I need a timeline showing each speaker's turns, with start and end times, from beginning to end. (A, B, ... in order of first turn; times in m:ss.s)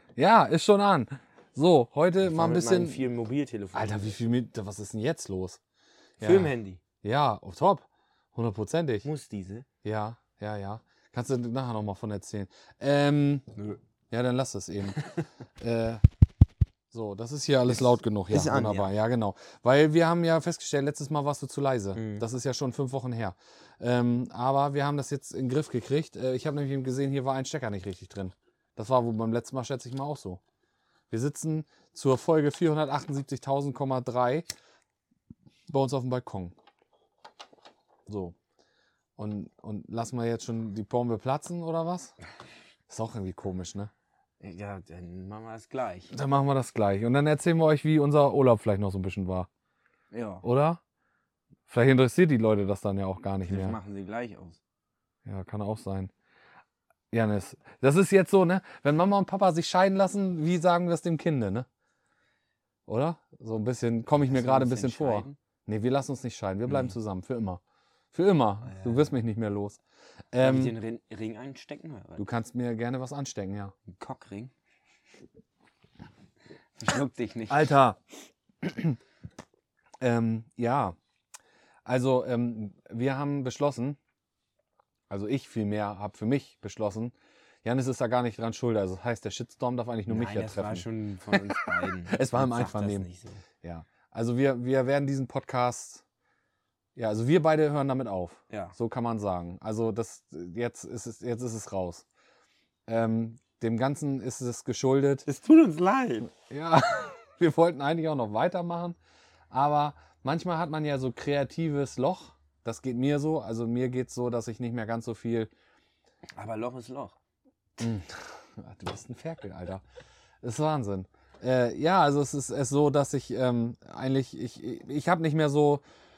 0:00.2-0:03.0 A
0:02.2-0:04.2 B
0:03.7-0:05.6 A
0:06.2-0:09.0 A
0:06.2-0:06.8 B
0:09.0-0:09.6 B
0:09.8-0:13.5 A
0:14.1-0:15.0 A
0:15.0-0:15.2 B
0:15.6-0:16.0 A
0:16.9-0:30.4 A
0:17.7-0:18.9 B
0:21.9-0:22.2 B
0:31.1-0:34.5 A
0:35.7-0:36.5 A
0:38.1-0:38.4 A
0:39.2-0:42.1 A
0:42.9-0:43.9 A
0:44.4-0:46.1 B
0:46.1-0:49.5 A
0:50.1-0:50.4 B
0:50.4-0:50.8 A
0:51.7-0:53.8 A
0:53.4-0:54.6 B
0:55.2-0:56.1 A
0:57.1-1:01.7 A
1:02.9-1:07.6 A
1:04.1-1:05.4 B
1:06.7-1:06.9 B
1:08.1-1:09.8 A
1:08.7-1:09.1 B
1:10.3-1:10.7 A
1:10.4-1:12.2 B
1:12.2-1:13.7 A
1:13.8-1:14.5 B
1:16.8-1:17.7 B
1:17.5-1:18.0 A
1:18.6-1:19.0 A
1:20.0-1:21.0 A
1:21.8-1:24.0 A
1:25.1-1:33.1 A
1:30.1-1:33.4 B
1:33.6-1:36.0 A
1:37.0-1:42.0 A
1:38.5-1:38.7 B
1:42.9-1:45.2 A
1:45.2-1:46.3 B
1:46.4-1:49.0 A
1:49.5-1:55.5 A
1:56.4-1:57.2 B
1:57.8-1:59.8 A
2:00.4-2:05.8 A